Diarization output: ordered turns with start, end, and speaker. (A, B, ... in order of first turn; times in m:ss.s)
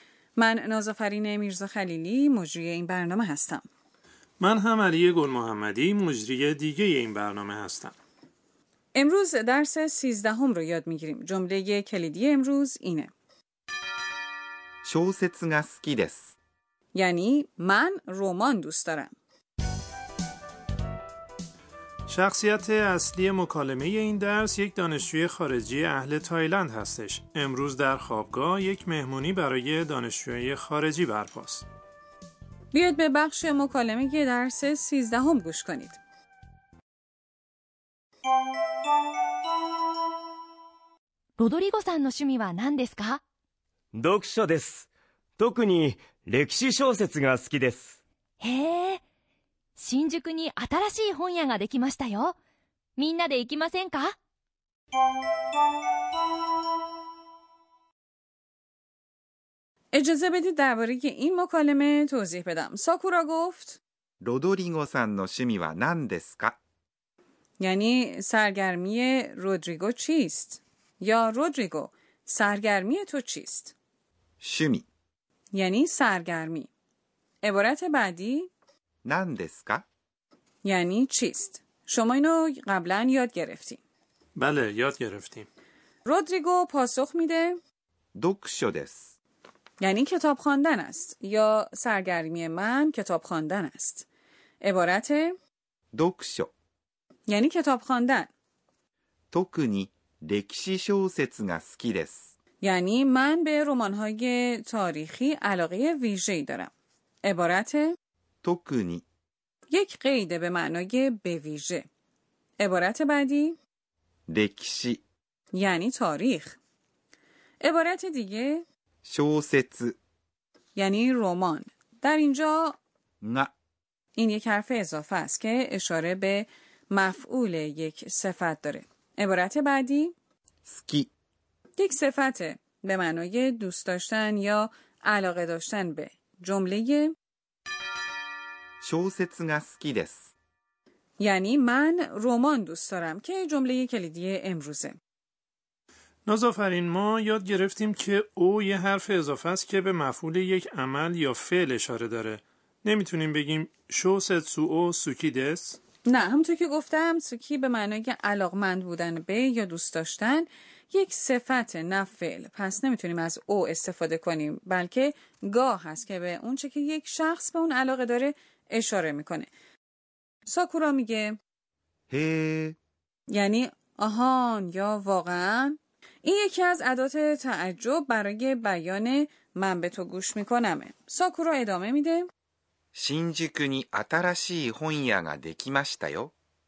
0:00.4-0:03.6 A
0:04.4-0:08.0 B
0:09.0-0:13.1 A
0:14.8-0:16.4 C
0:16.9-0:19.1 A
0:22.1-0:31.7 B
0:32.7-0:36.0 A
0:41.4-0:43.2 D
0:43.9-0:48.0 E
0:48.4-0:49.0 D
0:49.8-0:52.4 D
0:53.0-0:54.2 D
0:59.9-1:03.8 A
1:04.2-1:06.6 C
1:07.6-1:13.7 A
1:14.4-1:14.9 C
1:15.5-1:16.7 A
1:17.4-1:18.5 A
1:19.0-1:19.8 C
1:20.6-1:23.8 A
1:24.4-1:25.5 B
1:26.1-1:27.6 A
1:28.2-1:29.2 C
1:29.8-1:34.1 A
1:34.6-1:35.4 A
1:35.9-1:36.5 C
1:37.3-1:38.3 A
1:39.3-1:42.4 C
1:42.6-1:46.7 A
1:47.2-1:48.0 A
1:48.4-1:49.0 C
1:49.7-1:51.9 A
1:52.6-1:53.6 A
1:54.3-1:55.0 C
1:55.5-1:56.6 A
1:57.6-1:58.6 A
1:59.0-2:00.0 C
2:00.8-2:02.8 A
2:03.2-2:03.5 C
2:04.2-2:10.1 A
2:10.7-2:11.1 C
2:11.8-2:17.1 A
2:18.8-2:20.3 C
2:21.2-2:25.0 A
2:26.3-2:35.8 B
2:36.1-2:49.5 A
2:50.5-2:51.4 A
2:52.1-2:52.8 C
2:53.3-3:02.3 A
3:02.9-3:06.3 C